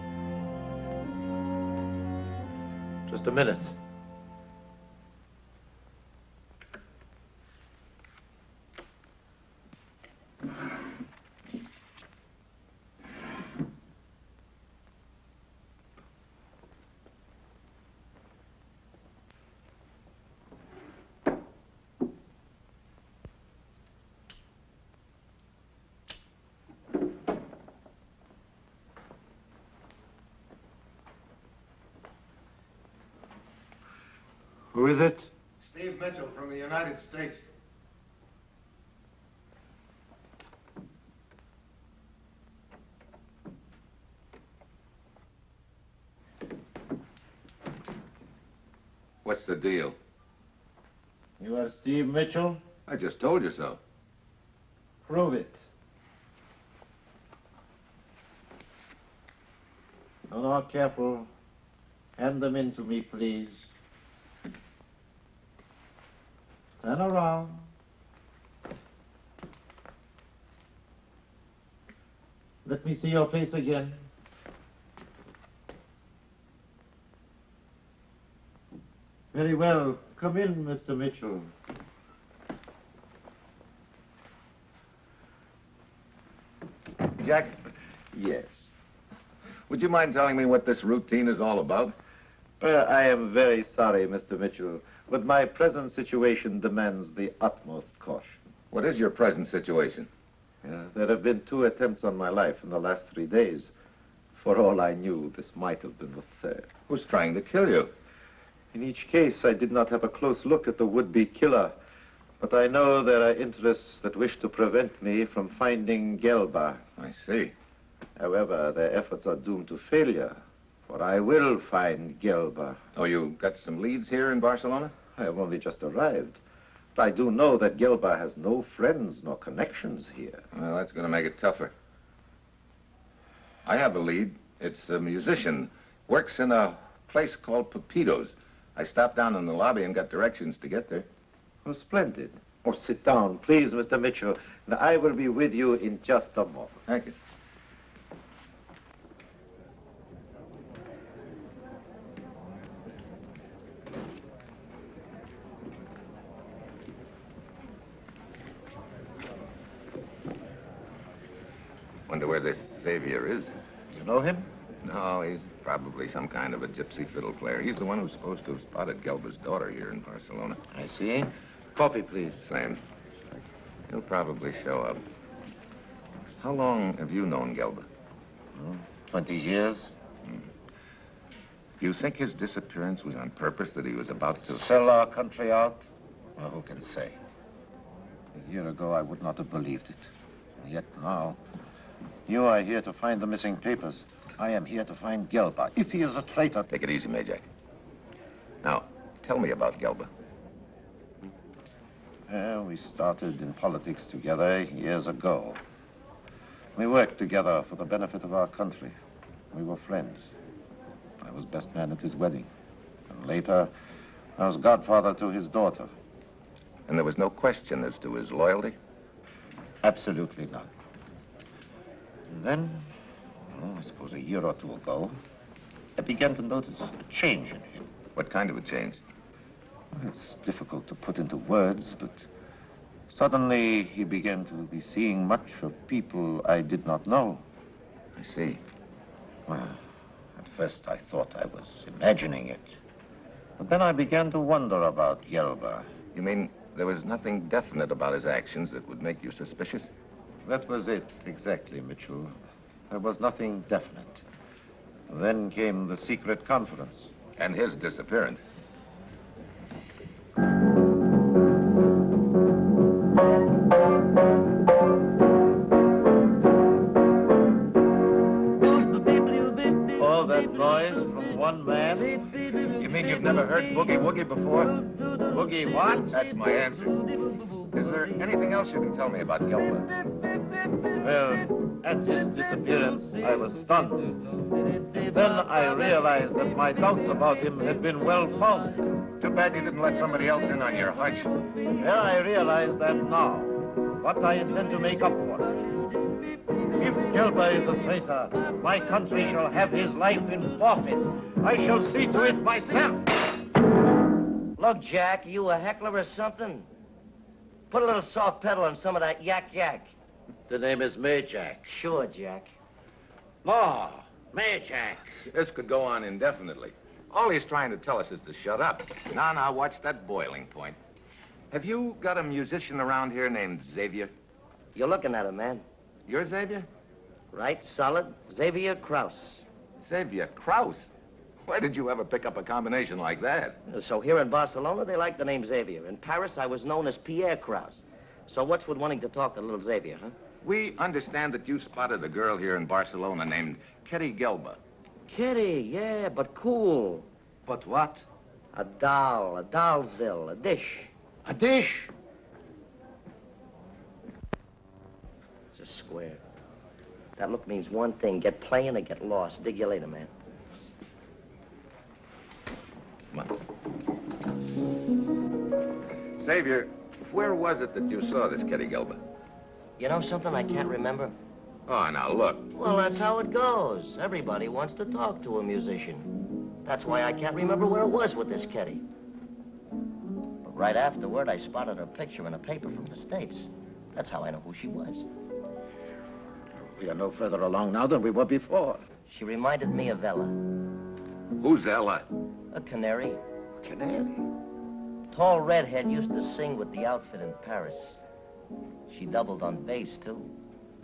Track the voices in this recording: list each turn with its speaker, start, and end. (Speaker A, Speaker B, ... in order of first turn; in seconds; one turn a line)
Speaker A: 3.1-3.7
Speaker A: 34.7-35.3
Speaker B: 35.6-37.5
Speaker B: 49.2-50.0
Speaker A: 51.4-52.6
Speaker B: 52.9-53.8
Speaker A: 55.0-55.6
Speaker A: 60.3-61.3
Speaker A: 62.2-63.7
Speaker A: 66.8-67.7
Speaker A: 72.6-74.0
Speaker A: 79.3-81.5
Speaker B: 87.1-87.6
Speaker B: 88.1-88.7
Speaker B: 89.7-91.9
Speaker A: 92.6-98.4
Speaker B: 98.7-100.1
Speaker A: 100.6-103.7
Speaker A: 104.3-106.7
Speaker B: 106.9-107.9
Speaker A: 108.7-111.8
Speaker A: 112.4-116.8
Speaker B: 117.0-117.5
Speaker A: 118.2-122.8
Speaker B: 122.9-124.9
Speaker A: 125.1-126.4
Speaker A: 126.9-130.4
Speaker B: 130.5-131.7
Speaker B: 133.6-141.1
Speaker A: 141.6-146.8
Speaker B: 146.9-147.1
Speaker B: 162.1-163.5
Speaker A: 163.9-164.5
Speaker B: 164.8-170.6
Speaker A: 170.7-172.4
Speaker B: 172.4-172.8
Speaker B: 173.9-175.0
Speaker B: 176.4-177.9
Speaker A: 178.5-179.9
Speaker B: 181.8-184.6
Speaker A: 184.5-187.2
Speaker A: 188.3-191.4
Speaker A: 192.2-196.7
Speaker B: 196.7-197.5
Speaker B: 198.6-200.1
Speaker A: 202.3-205.6
Speaker A: 206.7-208.9
Speaker A: 209.5-210.3
Speaker A: 211.2-212.5
Speaker A: 213.1-213.7
Speaker A: 214.4-215.9
Speaker B: 216.9-218.8
Speaker A: 219.8-220.7
Speaker A: 222.3-222.9
Speaker A: 223.5-225.2
Speaker A: 225.9-227.8
Speaker B: 228.2-229.0
Speaker A: 229.9-232.3
Speaker A: 233.1-237.4
Speaker B: 238.2-238.6
Speaker A: 239.5-239.8
Speaker A: 240.3-242.8
Speaker A: 243.6-245.9
Speaker B: 246.1-249.9
Speaker A: 250.4-252.3
Speaker A: 252.9-254.2
Speaker A: 255.1-257.1
Speaker B: 257.4-258.4
Speaker A: 269.8-272.4
Speaker B: 272.7-274.8
Speaker A: 275.2-276.1
Speaker B: 276.1-277.0
Speaker B: 277.7-279.9
Speaker A: 280.9-284.2
Speaker A: 284.9-288.9
Speaker B: 289.2-291.3
Speaker A: 291.8-295.5
Speaker A: 296.7-303.1
Speaker C: 304.6-306.7
Speaker C: 307.7-309.9
Speaker A: 310.5-311.7
Speaker C: 311.7-312.6
Speaker A: 313.4-315.1
Speaker B: 315.2-320.8
Speaker B: 321.5-324.1
Speaker C: 324.7-325.6
Speaker B: 326.1-326.7
Speaker C: 327.3-329.4
Speaker B: 329.8-330.9
Speaker B: 331.5-333.6
Speaker C: 333.7-340.1
Speaker B: 340.4-344.6
Speaker C: 345.1-347.1
Speaker A: 347.4-348.0
Speaker C: 348.5-350.9
Speaker A: 351.2-351.9
Speaker C: 355.5-356.2
Speaker C: 357.2-360.1
Speaker B: 366.2-369.0
Speaker C: 369.8-371.1
Speaker B: 371.7-372.5
Speaker C: 372.5-376.1
Speaker C: 376.6-378.8
Speaker C: 380.4-385.1
Speaker A: 386.6-388.8
Speaker C: 389.1-390.4
Speaker B: 391.4-392.1
Speaker C: 392.5-393.2
Speaker A: 393.6-394.2
Speaker C: 395.1-398.0
Speaker C: 398.9-400.3